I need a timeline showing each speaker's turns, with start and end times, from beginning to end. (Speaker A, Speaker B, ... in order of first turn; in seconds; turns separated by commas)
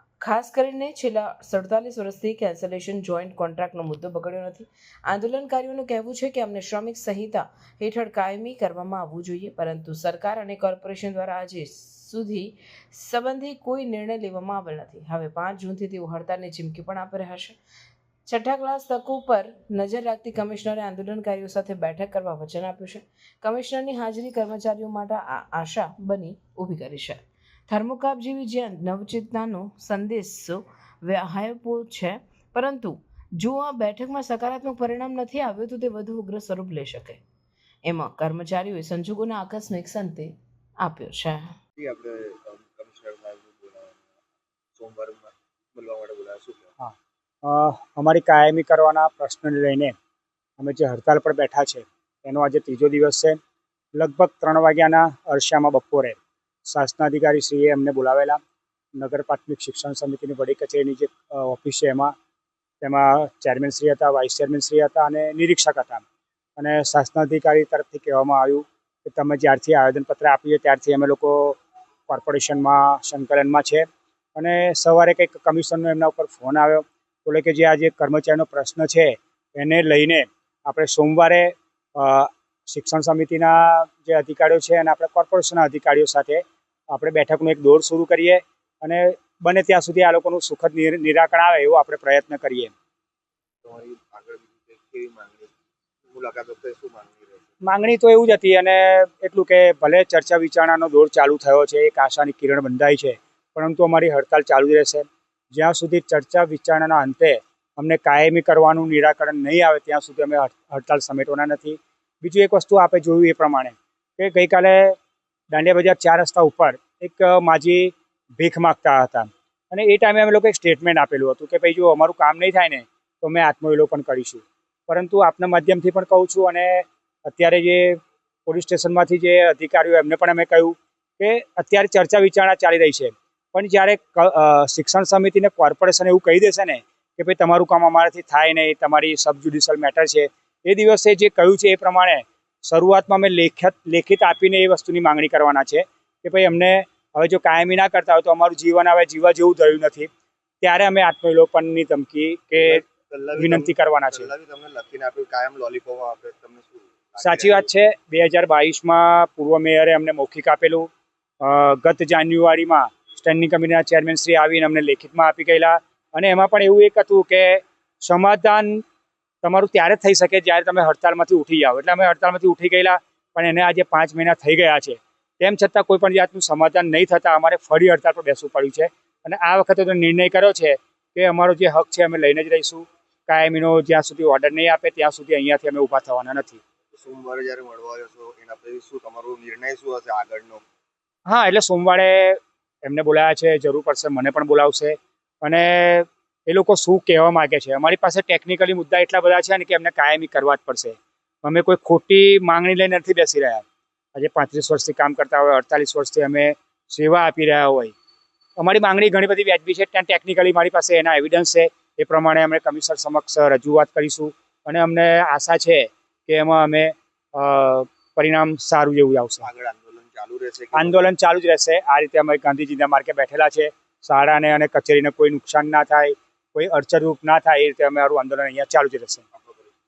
Speaker A: 0.2-17.6, Speaker A: 18.3-37.2, Speaker A: 37.9-41.5, Speaker B: 41.8-44.2, Speaker B: 44.8-46.7, Speaker C: 46.8-49.9, Speaker C: 50.6-53.4, Speaker C: 53.9-58.4, Speaker C: 59.0-62.1, Speaker C: 62.8-66.0, Speaker C: 66.6-92.7, Speaker B: 93.6-95.5, Speaker B: 96.1-97.5, Speaker C: 97.6-115.0, Speaker C: 115.5-150.1, Speaker C: 150.6-152.8, Speaker B: 152.6-157.7, Speaker C: 153.3-154.3, Speaker C: 157.2-160.9, Speaker C: 161.4-168.8, Speaker C: 169.4-186.6, Speaker B: 186.9-190.6, Speaker C: 191.3-207.9, Speaker C: 208.6-219.5, Speaker B: 219.4-221.1, Speaker C: 220.8-229.2, Speaker B: 229.3-229.7